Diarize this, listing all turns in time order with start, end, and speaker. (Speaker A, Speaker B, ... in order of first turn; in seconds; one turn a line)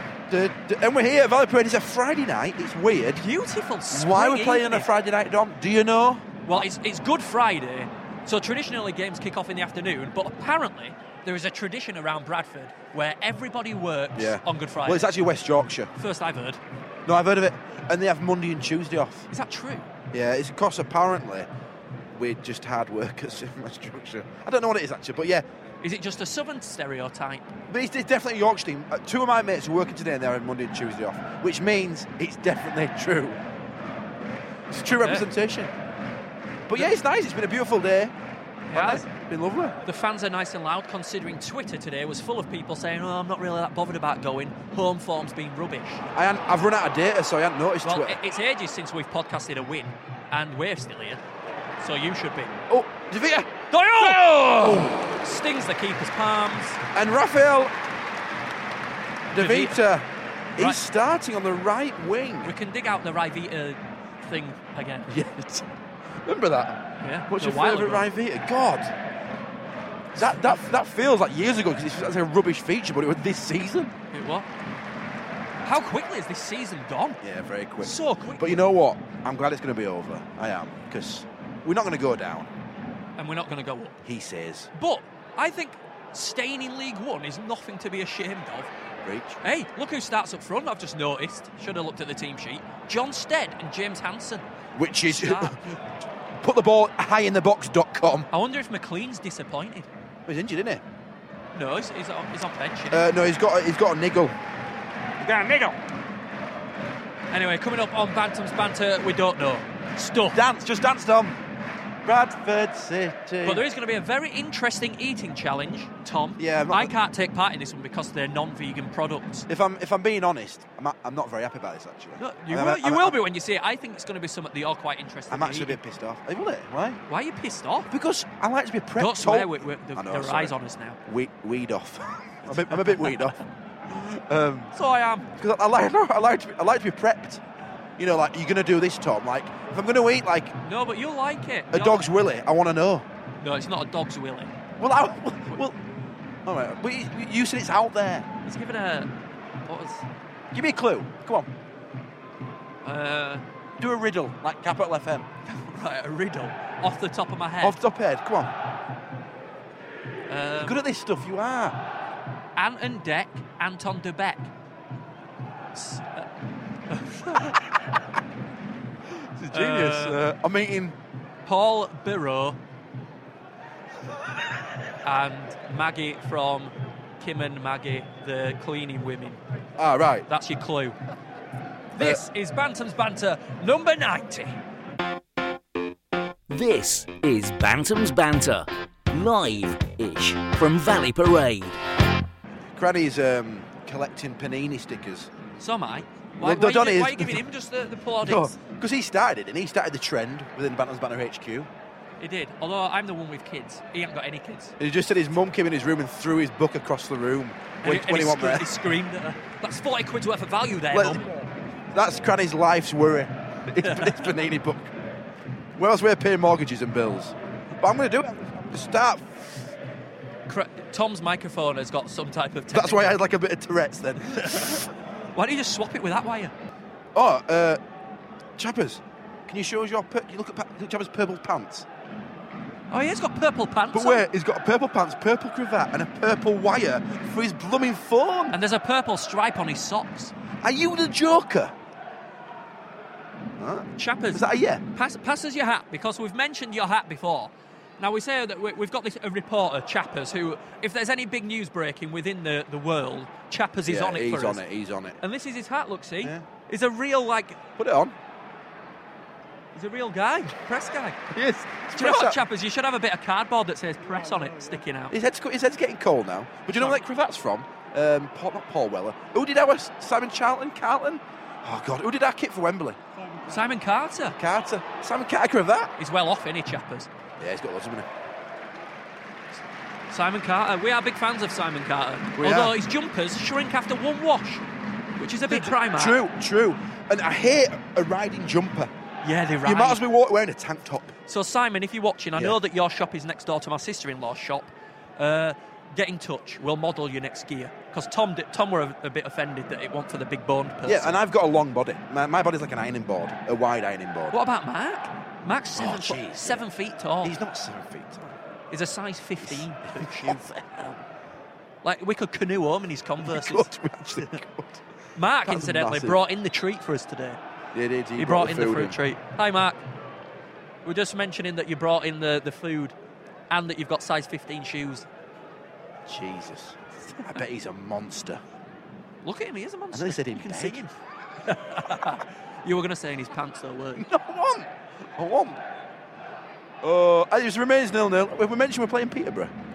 Speaker A: 0.3-3.3
Speaker B: 3.2-4.9
Speaker A: 3.9-6.3
Speaker B: 6.5-15.1
Speaker A: 14.2-15.9
Speaker B: 16.0-16.6
Speaker A: 17.1-19.3
Speaker B: 19.3-19.9
Speaker A: 20.1-21.5
Speaker A: 22.1-25.4
Speaker B: 25.8-27.5
Speaker A: 27.7-33.4
Speaker A: 34.7-35.7
Speaker B: 34.9-35.3
Speaker A: 36.7-38.1
Speaker B: 38.7-39.1
Speaker A: 38.7-39.8
Speaker B: 39.8-46.0
Speaker A: 46.1-48.2
Speaker B: 47.9-51.2
Speaker B: 51.8-52.6
Speaker A: 52.7-55.1
Speaker B: 53.7-56.8
Speaker A: 56.9-57.7
Speaker A: 59.3-62.5
Speaker B: 59.4-59.8
Speaker B: 62.4-65.1
Speaker A: 65.1-65.7
Speaker A: 66.2-68.9
Speaker B: 67.0-68.1
Speaker B: 70.1-70.7
Speaker A: 70.2-73.9
Speaker B: 74.1-74.5
Speaker B: 75.6-77.2
Speaker A: 77.2-82.5
Speaker B: 77.8-78.6
Speaker B: 83.2-84.0
Speaker A: 84.0-84.7
Speaker B: 84.7-88.7
Speaker A: 89.0-89.4
Speaker B: 89.4-94.5
Speaker A: 94.8-95.8
Speaker B: 95.0-95.8
Speaker A: 96.4-98.3
Speaker B: 98.3-99.9
Speaker A: 100.3-100.8
Speaker B: 101.5-103.1
Speaker A: 102.9-104.4
Speaker A: 105.2-105.8
Speaker B: 107.3-110.4
Speaker A: 110.3-111.4
Speaker A: 112.0-113.7
Speaker B: 113.4-119.5
Speaker A: 116.4-117.0
Speaker A: 119.5-123.2
Speaker B: 122.2-125.8
Speaker A: 125.3-127.0
Speaker B: 127.1-127.9
Speaker A: 127.9-134.7
Speaker B: 129.0-131.0
Speaker B: 132.7-133.3
Speaker B: 134.7-135.3
Speaker A: 135.4-137.4
Speaker A: 138.0-140.6
Speaker B: 140.6-142.1
Speaker A: 141.7-143.1
Speaker B: 143.4-144.5
Speaker A: 144.8-145.8
Speaker A: 146.4-148.3
Speaker B: 148.4-149.1
Speaker B: 149.7-150.1
Speaker A: 150.5-151.5
Speaker B: 152.8-153.4
Speaker A: 153.8-155.3
Speaker B: 155.5-157.8
Speaker A: 157.6-158.5
Speaker B: 160.3-160.8
Speaker A: 160.6-161.8
Speaker B: 162.6-164.5
Speaker B: 165.7-166.3
Speaker B: 166.9-167.7
Speaker A: 169.1-171.0
Speaker B: 169.5-170.2
Speaker B: 171.4-172.6
Speaker B: 175.0-179.4
Speaker A: 179.8-180.3
Speaker B: 180.3-181.0
Speaker B: 181.9-184.6
Speaker C: 186.5-191.8
Speaker A: 192.7-195.3
Speaker B: 195.6-198.6
Speaker A: 196.4-197.5
Speaker A: 198.2-201.7
Speaker B: 202.2-204.8
Speaker A: 204.8-208.7
Speaker B: 207.8-211.3
Speaker A: 210.9-211.3
Speaker A: 211.9-214.9
Speaker B: 213.8-214.3
Speaker A: 215.8-219.7
Speaker B: 220.5-223.2
Speaker A: 222.7-224.9
Speaker B: 224.4-226.5
Speaker A: 227.2-227.8
Speaker A: 228.6-231.9
Speaker B: 232.9-234.3
Speaker A: 233.9-238.6
Speaker B: 238.5-240.3
Speaker A: 240.6-241.7
Speaker A: 243.6-244.8
Speaker B: 244.0-254.6
Speaker A: 253.9-255.2
Speaker B: 255.2-257.6
Speaker A: 257.8-258.1
Speaker B: 259.8-261.2
Speaker A: 261.3-262.4
Speaker B: 261.9-265.1
Speaker A: 265.1-273.0
Speaker B: 266.7-267.0
Speaker B: 273.4-274.4
Speaker A: 274.4-275.9
Speaker B: 276.0-277.1
Speaker A: 277.4-278.1
Speaker B: 280.1-284.6
Speaker A: 282.4-282.8
Speaker B: 285.2-286.2
Speaker A: 285.5-288.9
Speaker B: 289.2-290.0
Speaker A: 289.6-291.1
Speaker B: 291.3-301.2
Speaker A: 300.9-304.4
Speaker B: 304.3-307.4
Speaker A: 305.8-306.7
Speaker A: 307.2-308.4
Speaker B: 308.7-311.0
Speaker A: 309.4-310.8
Speaker B: 311.8-313.7
Speaker A: 313.2-314.8
Speaker B: 315.2-317.4
Speaker A: 315.4-316.2
Speaker A: 317.7-319.0
Speaker B: 318.2-319.8
Speaker B: 320.9-323.0
Speaker B: 323.5-325.1
Speaker A: 326.1-328.4
Speaker B: 329.2-334.1
Speaker A: 329.9-330.8
Speaker A: 333.9-335.6
Speaker A: 336.8-339.5